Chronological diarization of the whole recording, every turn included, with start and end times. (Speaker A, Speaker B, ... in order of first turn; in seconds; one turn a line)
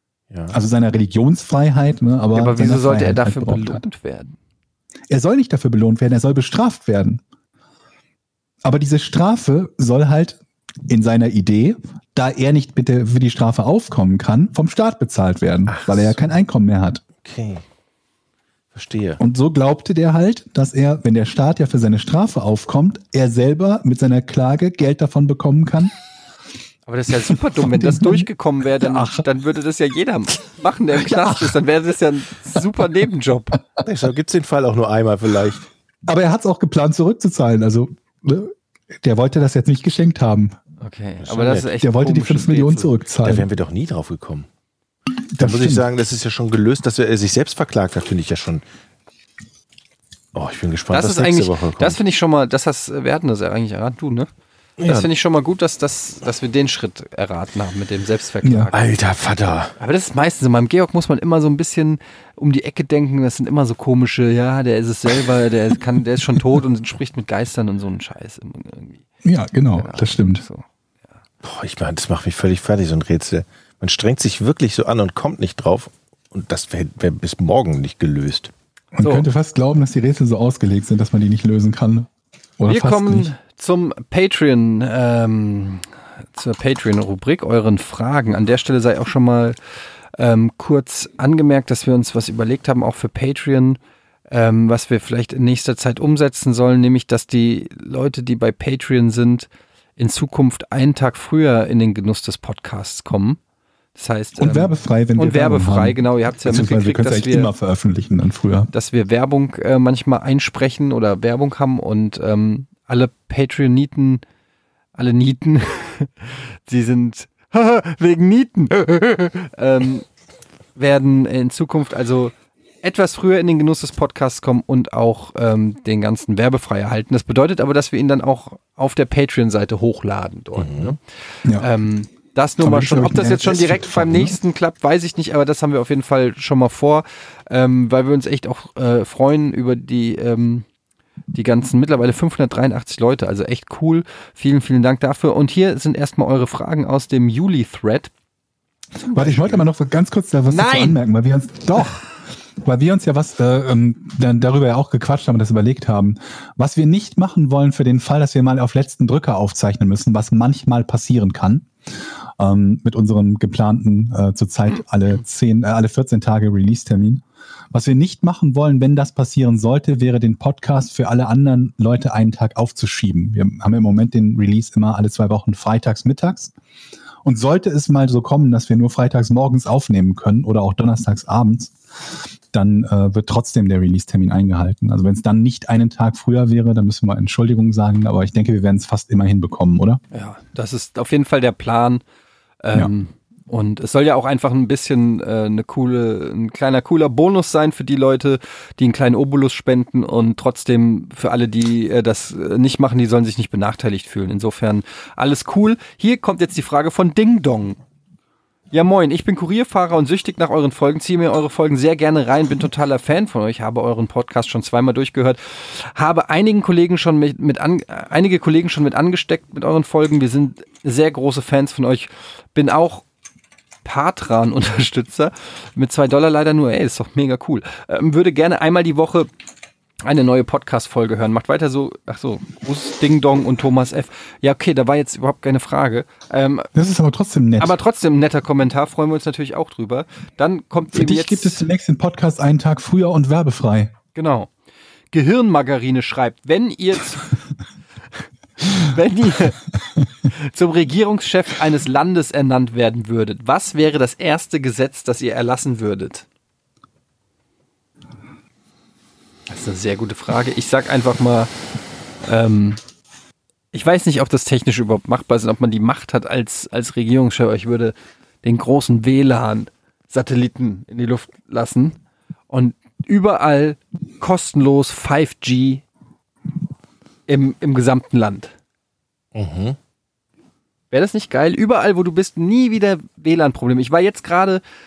Speaker A: 0.3-0.6
Speaker B: 0.5-3.8
Speaker C: 2.3-4.3
Speaker B: 5.1-7.2
Speaker B: 8.6-17.0
Speaker A: 15.7-16.3
Speaker A: 17.2-17.6
Speaker A: 18.7-19.2
Speaker B: 19.2-25.9
Speaker C: 26.9-33.6
Speaker B: 27.3-28.3
Speaker B: 28.8-29.3
Speaker B: 31.0-31.5
Speaker A: 33.8-35.7
Speaker B: 36.0-40.5
Speaker C: 40.8-42.9
Speaker A: 41.2-41.7
Speaker B: 41.8-43.5
Speaker A: 43.2-44.5
Speaker B: 45.3-45.9
Speaker A: 45.4-48.6
Speaker A: 50.3-52.0
Speaker C: 50.9-54.3
Speaker A: 54.8-55.1
Speaker C: 54.8-58.8
Speaker B: 58.4-58.7
Speaker A: 58.7-59.7
Speaker C: 59.8-69.0
Speaker B: 69.2-70.4
Speaker C: 69.7-70.7
Speaker A: 71.4-78.5
Speaker B: 78.9-83.3
Speaker C: 82.7-89.6
Speaker C: 90.1-93.8
Speaker C: 94.3-103.4
Speaker C: 103.9-107.5
Speaker B: 104.4-108.7
Speaker C: 108.7-114.2
Speaker C: 114.9-120.1
Speaker C: 120.8-131.0
Speaker A: 130.6-130.9
Speaker C: 131.5-140.7
Speaker B: 132.6-134.4
Speaker C: 141.3-148.1
Speaker C: 149.1-149.6
Speaker B: 149.1-152.0
Speaker C: 150.5-151.0
Speaker B: 152.6-161.7
Speaker B: 162.4-176.5
Speaker B: 177.2-190.0
Speaker C: 190.1-192.0
Speaker C: 192.6-207.8
Speaker C: 208.7-223.0
Speaker C: 223.8-229.3
Speaker C: 230.0-236.7
Speaker B: 236.7-237.8
Speaker C: 237.6-241.6
Speaker B: 240.9-243.9
Speaker C: 244.1-244.5
Speaker C: 245.1-247.3
Speaker C: 248.6-249.7
Speaker C: 250.2-256.2
Speaker C: 259.5-261.5
Speaker C: 262.2-262.8
Speaker C: 263.7-271.9
Speaker C: 272.5-275.8
Speaker C: 277.3-278.5
Speaker A: 279.3-279.8
Speaker C: 280.9-284.6